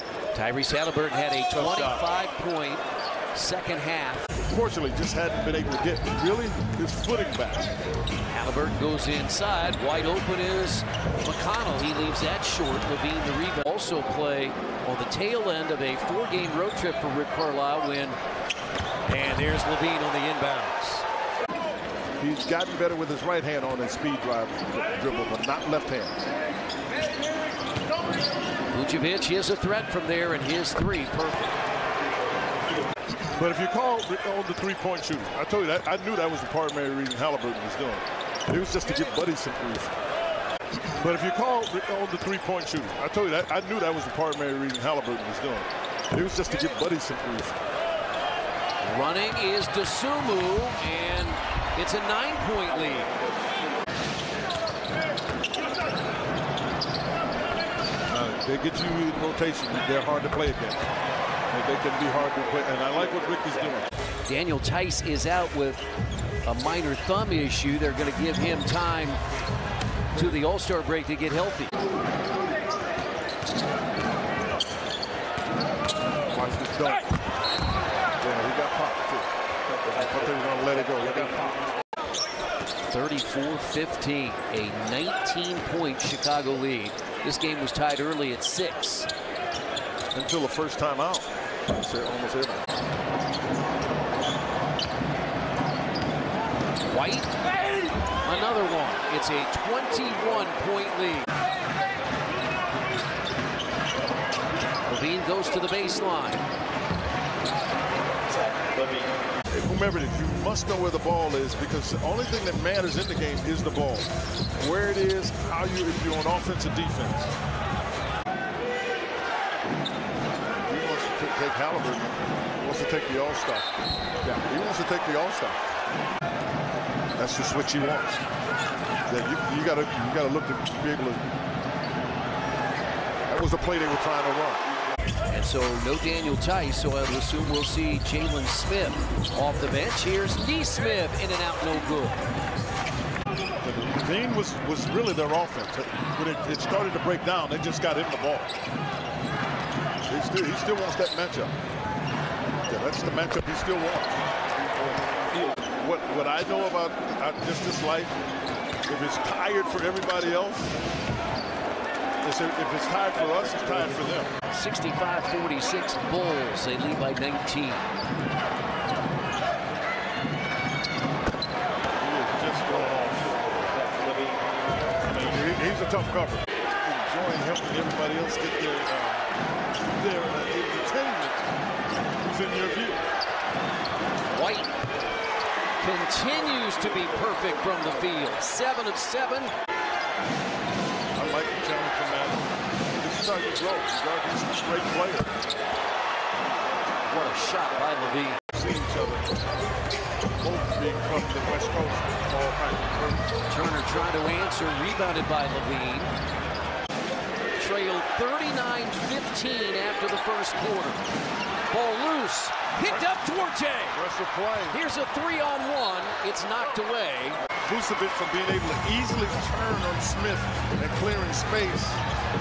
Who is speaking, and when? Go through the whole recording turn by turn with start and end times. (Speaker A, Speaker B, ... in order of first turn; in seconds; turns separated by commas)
Speaker A: 0.3-2.8, Speaker B: 1.5-2.0, Speaker A: 3.4-4.2, Speaker B: 4.4-7.8, Speaker A: 8.3-18.2, Speaker A: 19.1-21.1, Speaker B: 22.2-26.2, Speaker A: 28.7-31.6, Speaker B: 33.3-39.9, Speaker B: 41.0-47.6, Speaker A: 48.8-53.1, Speaker B: 58.1-60.8, Speaker B: 61.5-63.9, Speaker A: 64.3-65.8, Speaker A: 66.5-69.2, Speaker A: 70.2-71.7, Speaker B: 76.3-77.1, Speaker B: 78.2-79.3, Speaker B: 79.9-81.6, Speaker A: 82.9-89.1, Speaker B: 90.1-92.6, Speaker A: 96.9-97.3, Speaker A: 98.2-101.3, Speaker A: 104.9-106.4, Speaker B: 109.5-117.3, Speaker B: 120.7-123.7, Speaker B: 124.2-125.6, Speaker B: 127.2-128.2, Speaker B: 129.1-131.2, Speaker B: 133.3-134.6, Speaker A: 135.3-142.2, Speaker B: 143.6-148.5, Speaker B: 150.1-151.5, Speaker B: 152.7-154.2, Speaker B: 155.8-158.2, Speaker B: 158.9-160.8, Speaker B: 162.2-164.3, Speaker A: 164.5-167.8, Speaker B: 172.0-173.4, Speaker B: 175.0-179.3, Speaker B: 179.9-181.4, Speaker B: 182.2-183.0, Speaker A: 184.3-184.7, Speaker A: 185.8-189.5, Speaker B: 186.8-188.4, Speaker B: 191.2-192.5, Speaker B: 193.0-195.3, Speaker A: 197.1-198.4, Speaker B: 198.5-199.3, Speaker B: 200.4-203.2, Speaker A: 203.5-206.1, Speaker A: 207.6-211.0, Speaker A: 211.7-214.0, Speaker B: 212.9-213.1, Speaker B: 213.9-214.8, Speaker A: 214.7-217.4, Speaker B: 217.7-222.0